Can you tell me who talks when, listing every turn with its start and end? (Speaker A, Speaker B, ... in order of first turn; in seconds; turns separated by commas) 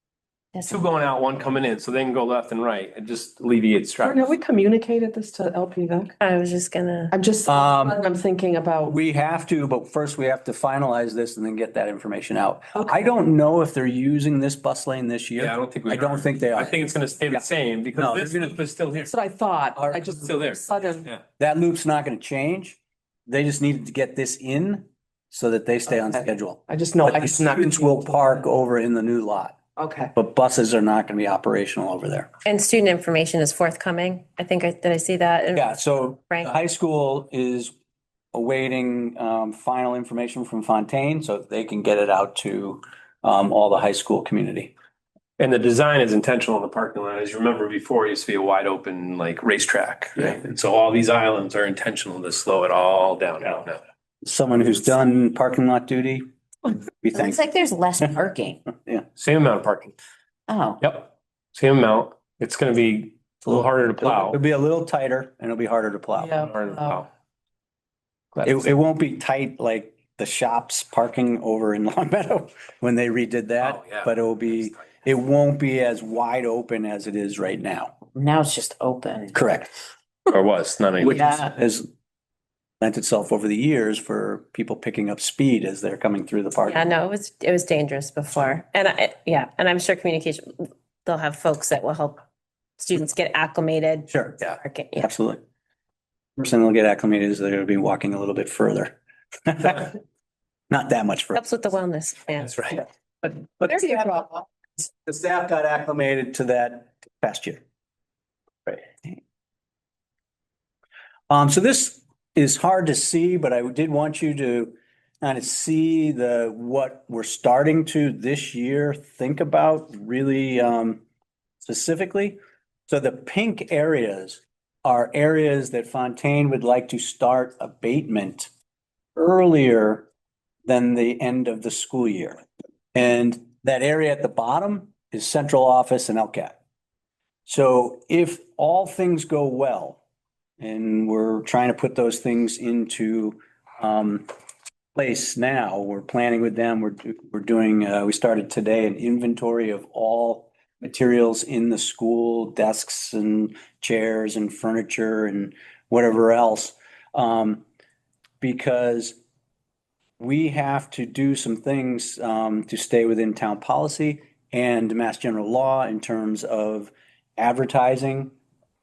Speaker A: 0.5-0.8, Speaker B: 0.7-4.3, Speaker C: 4.0-6.2, Speaker D: 6.2-7.1, Speaker C: 7.1-9.0, Speaker E: 7.5-8.0, Speaker E: 8.9-18.6, Speaker C: 12.7-13.0, Speaker B: 15.4-19.1, Speaker C: 19.0-21.1, Speaker E: 19.7-20.1, Speaker B: 20.0-21.2, Speaker E: 21.4-29.6, Speaker C: 26.0-28.4, Speaker C: 29.8-30.1, Speaker E: 30.1-32.3, Speaker D: 32.4-36.5, Speaker E: 35.5-37.7, Speaker E: 38.3-44.7, Speaker B: 45.4-53.8, Speaker E: 54.2-56.2, Speaker E: 57.0-57.4, Speaker A: 57.1-58.6, Speaker B: 59.2-59.9, Speaker A: 60.5-60.8, Speaker B: 60.8-64.4, Speaker E: 64.0-66.4, Speaker C: 66.2-67.0, Speaker B: 66.4-67.1, Speaker B: 68.3-68.6, Speaker E: 68.4-77.9, Speaker B: 73.6-74.9, Speaker A: 78.1-79.4, Speaker E: 79.3-79.7, Speaker B: 80.3-81.3, Speaker E: 81.0-81.8, Speaker E: 82.8-86.9, Speaker D: 86.6-92.2, Speaker D: 92.8-95.1, Speaker E: 94.1-94.4, Speaker E: 95.0-95.4, Speaker E: 96.4-100.0, Speaker E: 100.7-101.4, Speaker D: 101.3-102.8, Speaker E: 103.4-107.6, Speaker E: 108.7-109.1, Speaker E: 111.3-121.0, Speaker E: 121.6-128.5, Speaker E: 129.2-130.1, Speaker E: 130.7-132.4, Speaker E: 132.9-136.6, Speaker E: 137.5-140.0, Speaker E: 140.6-144.2, Speaker E: 144.9-157.6, Speaker E: 158.4-159.2, Speaker E: 160.2-168.3